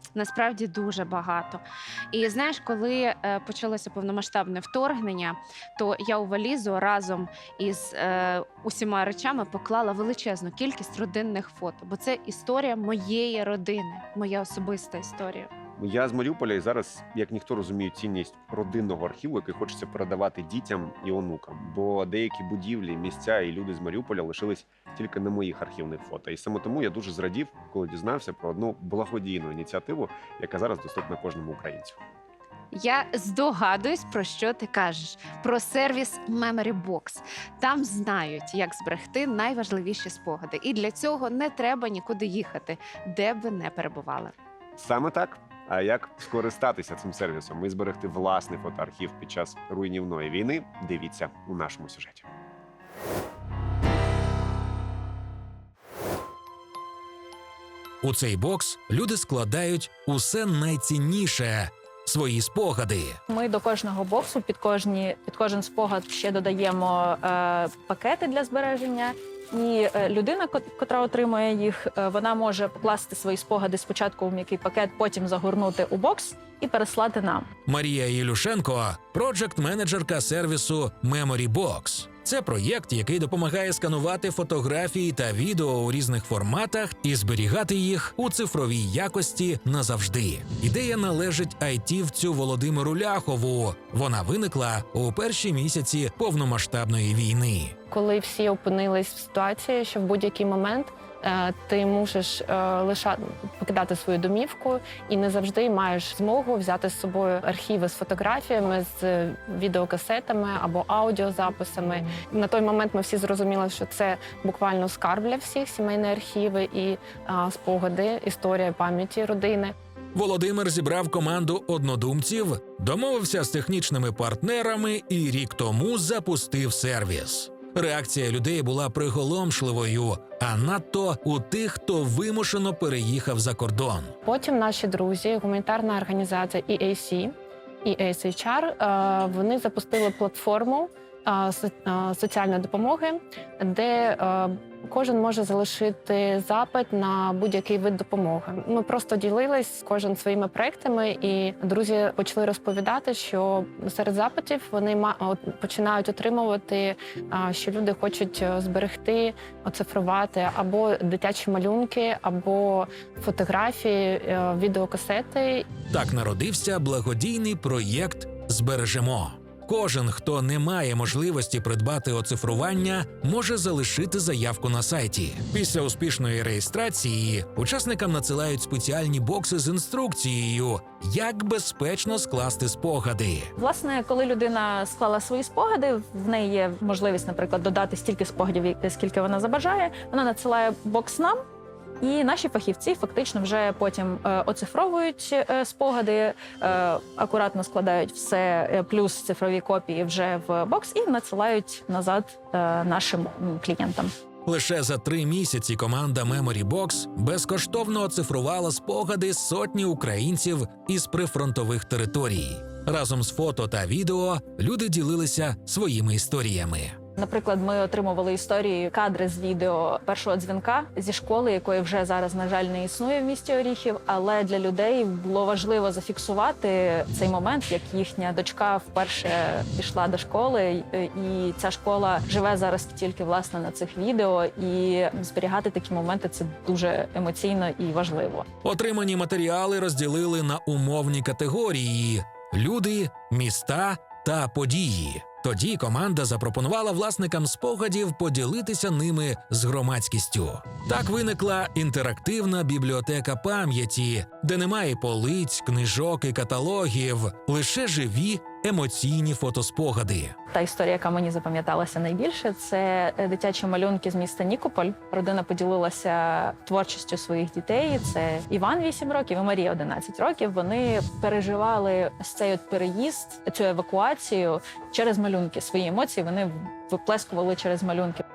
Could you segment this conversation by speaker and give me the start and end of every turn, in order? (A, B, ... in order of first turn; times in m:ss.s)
0:00.1-0:15.5 A
0:15.8-0:32.0 B
0:32.7-0:44.3 A
0:44.8-0:52.3 B
0:58.0-1:03.2 C
1:03.3-1:17.5 D
1:17.7-1:37.8 C
1:37.9-1:59.7 E
2:00.1-2:14.1 C
2:14.2-2:17.3 E
2:17.8-2:45.7 E
2:45.9-3:03.5 C
3:03.6-3:11.4 D
3:12.0-3:24.1 D
3:24.4-3:37.0 C
3:37.2-3:58.5 D
3:58.6-4:20.3 C
4:20.5-4:38.2 D